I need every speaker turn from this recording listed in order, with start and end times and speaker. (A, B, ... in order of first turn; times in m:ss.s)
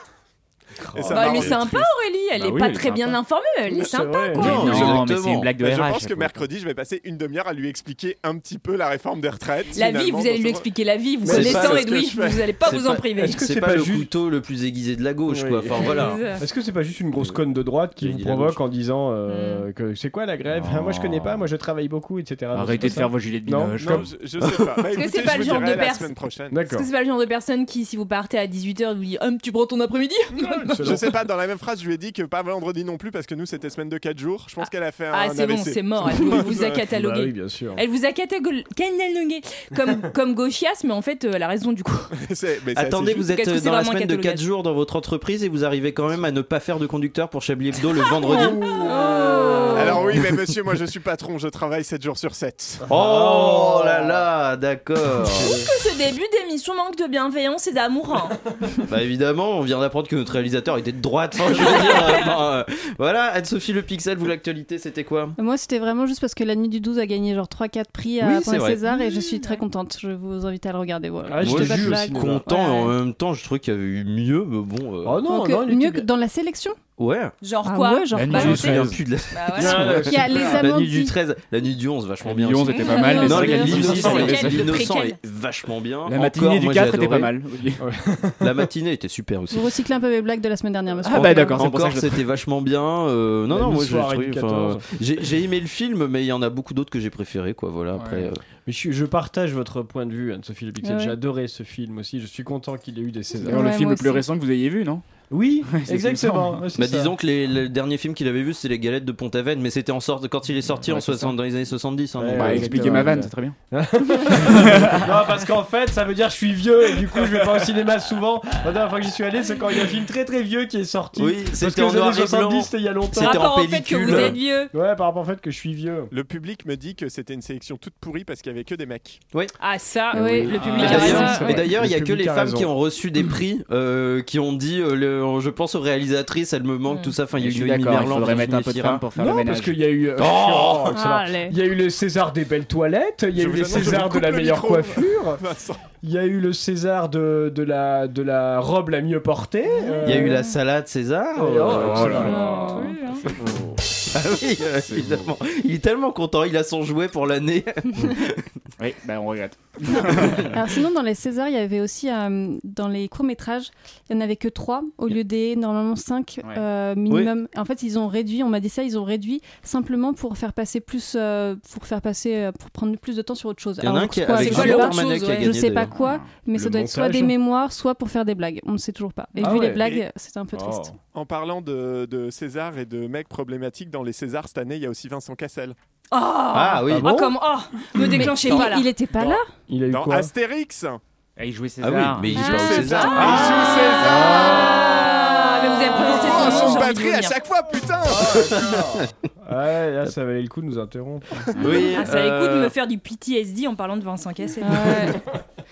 0:00.9-0:01.9 A
0:00.9-0:01.4 B
0:01.1-0:04.9 C
0:02.3-0:03.2 D
0:03.7-0:04.9 B
0:04.3-0:05.5 E
0:04.4-0:06.4 D
0:05.5-0:10.7 A
0:09.7-0:13.4 C
0:11.3-0:11.6 B
0:11.3-0:12.6 A
0:11.3-0:11.8 E
0:12.6-0:16.2 E
0:13.2-0:14.1 B
0:15.3-0:24.0 B
0:15.7-0:16.4 C
0:18.0-0:18.6 E
0:19.3-0:19.7 C
0:20.5-0:21.4 D
0:22.5-0:24.1 D
0:23.8-0:26.6 A
0:24.9-0:26.2 C
0:26.5-0:26.9 B
0:26.7-0:31.0 C
0:30.4-0:31.2 B
0:30.8-0:36.8 A
0:34.6-0:42.1 C
0:36.3-0:37.8 B
0:42.1-0:43.3 A
0:42.7-0:48.8 E
0:43.3-0:44.4 C
0:48.2-0:50.2 C
0:48.4-0:50.2 B
0:49.7-0:52.8 A
0:52.9-0:55.6 E
0:52.9-0:54.2 B
0:55.2-0:55.7 B
0:55.5-0:58.4 C
0:58.9-1:05.4 E
1:05.4-1:12.9 F
1:08.2-1:08.9 E
1:09.0-1:09.6 C
1:11.2-1:12.5 B
1:11.4-1:15.2 E
1:15.0-1:16.1 B
1:15.3-1:16.8 F
1:17.0-1:17.3 E
1:17.4-1:19.9 C
1:17.6-1:18.7 F
1:18.1-1:19.0 D
1:18.3-1:27.3 E
1:19.5-1:20.6 B
1:19.9-1:21.1 F
1:22.2-1:24.8 D
1:22.7-1:25.2 C
1:23.0-1:24.2 F
1:26.0-1:27.8 D
1:27.8-1:28.6 B
1:28.4-1:29.7 E
1:29.5-1:31.6 F
1:31.0-1:32.2 D
1:31.1-1:38.4 E
1:33.5-1:34.8 B
1:38.1-1:43.7 B
1:40.8-1:41.2 F
1:43.4-1:45.0 D
1:43.4-1:44.2 F
1:45.3-1:47.1 B
1:45.6-1:46.6 D
1:46.7-1:53.0 E
1:50.9-1:51.3 B
1:52.2-2:06.1 B
1:52.3-1:53.6 D
1:54.3-1:55.1 D
2:01.2-2:04.4 E
2:03.2-2:04.7 C
2:06.1-2:09.2 A
2:09.6-2:11.6 C
2:10.1-2:12.7 B
2:10.1-2:11.6 F
2:10.6-2:10.9 D
2:10.7-2:19.0 E
2:16.9-2:17.2 C
2:17.4-2:19.8 D
2:19.1-2:25.4 B
2:20.2-2:21.0 E
2:21.0-2:21.5 F
2:23.3-2:25.8 A
2:26.0-2:30.4 B
2:29.9-2:30.3 C
2:30.0-2:32.3 E
2:31.3-2:32.9 B
2:31.7-2:32.7 D
2:32.2-2:33.0 F
2:32.2-2:33.2 C
2:33.4-2:33.8 B
2:34.1-2:38.4 E
2:34.9-2:35.2 D
2:38.8-2:40.5 D
2:40.1-2:40.4 E
2:40.3-3:01.0 F
2:53.8-2:55.9 E
2:54.3-2:55.5 C
2:55.9-2:56.3 D
2:56.5-2:57.3 B
2:59.4-2:59.8 B
2:59.8-3:00.0 A
3:00.5-3:01.0 B
3:01.1-3:05.8 A
3:06.1-3:08.9 C
3:06.5-3:07.2 E
3:06.9-3:07.4 B
3:07.9-3:09.5 F
3:09.2-3:10.3 B
3:09.9-3:11.0 A
3:11.4-3:12.4 D
3:11.8-3:13.7 E
3:12.3-3:17.4 C
3:12.3-3:15.0 A
3:15.9-3:18.7 A
3:18.1-3:21.6 B
3:21.6-3:22.7 E
3:21.6-3:21.8 D
3:21.9-3:25.2 C
3:24.6-3:25.2 F